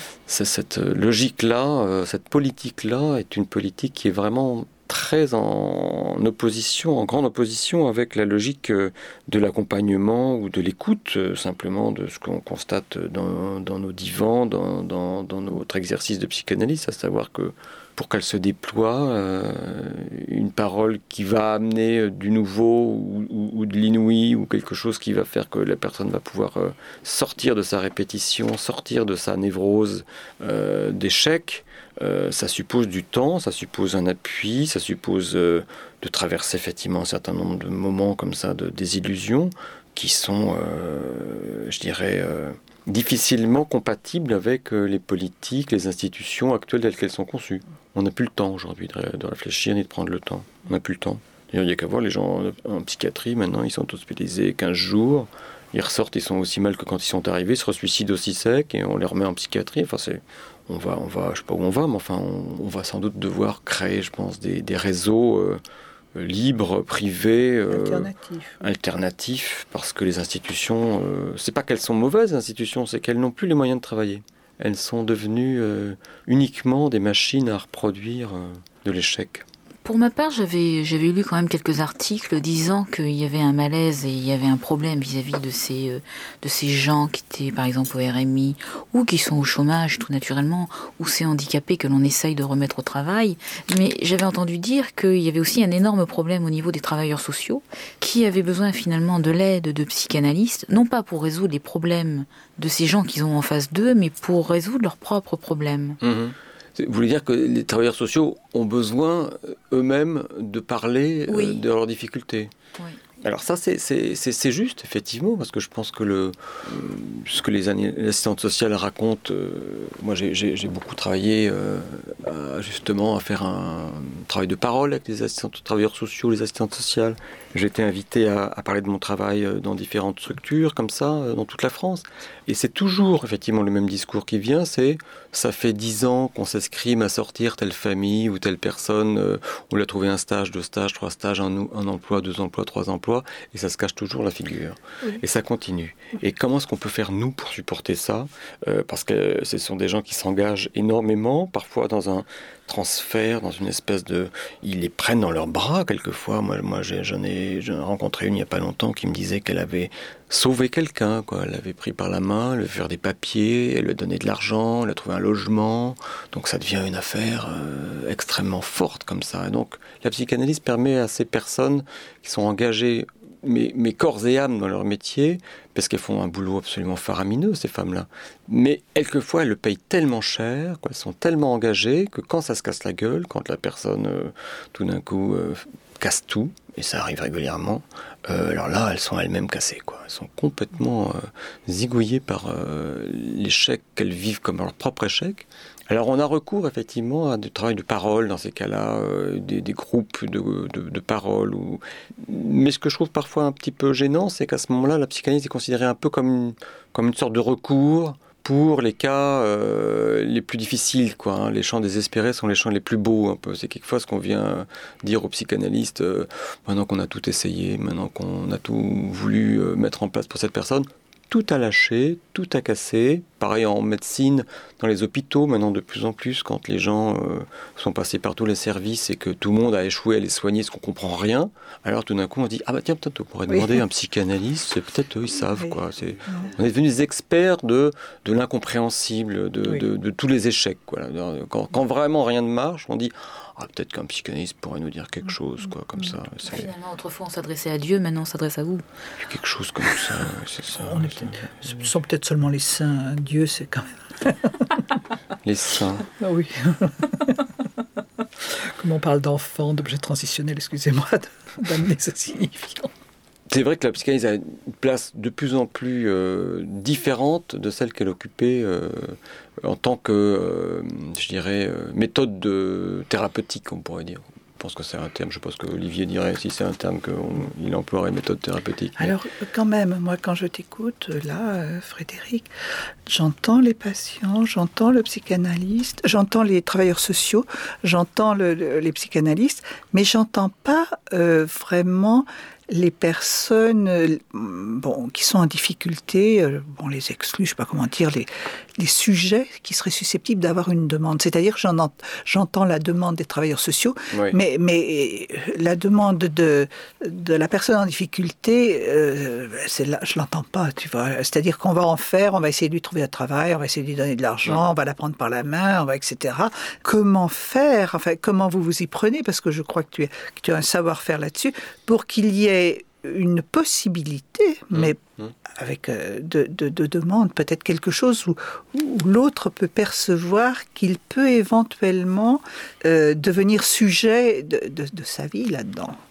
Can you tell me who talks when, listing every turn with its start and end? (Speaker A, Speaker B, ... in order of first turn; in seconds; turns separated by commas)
Speaker A: 0.3-65.6, Speaker A: 66.1-79.4, Speaker B: 67.7-68.6, Speaker C: 79.8-106.0, Speaker A: 106.0-112.5, Speaker C: 111.3-111.6, Speaker A: 113.2-246.7, Speaker B: 233.5-233.8, Speaker B: 235.6-236.5, Speaker C: 246.4-248.8, Speaker A: 249.2-251.4, Speaker B: 250.7-254.9, Speaker A: 255.4-256.1, Speaker B: 256.2-257.6, Speaker B: 258.4-262.9, Speaker A: 263.5-279.1, Speaker B: 279.0-282.5, Speaker B: 283.1-336.0, Speaker A: 304.1-304.4, Speaker A: 324.7-325.3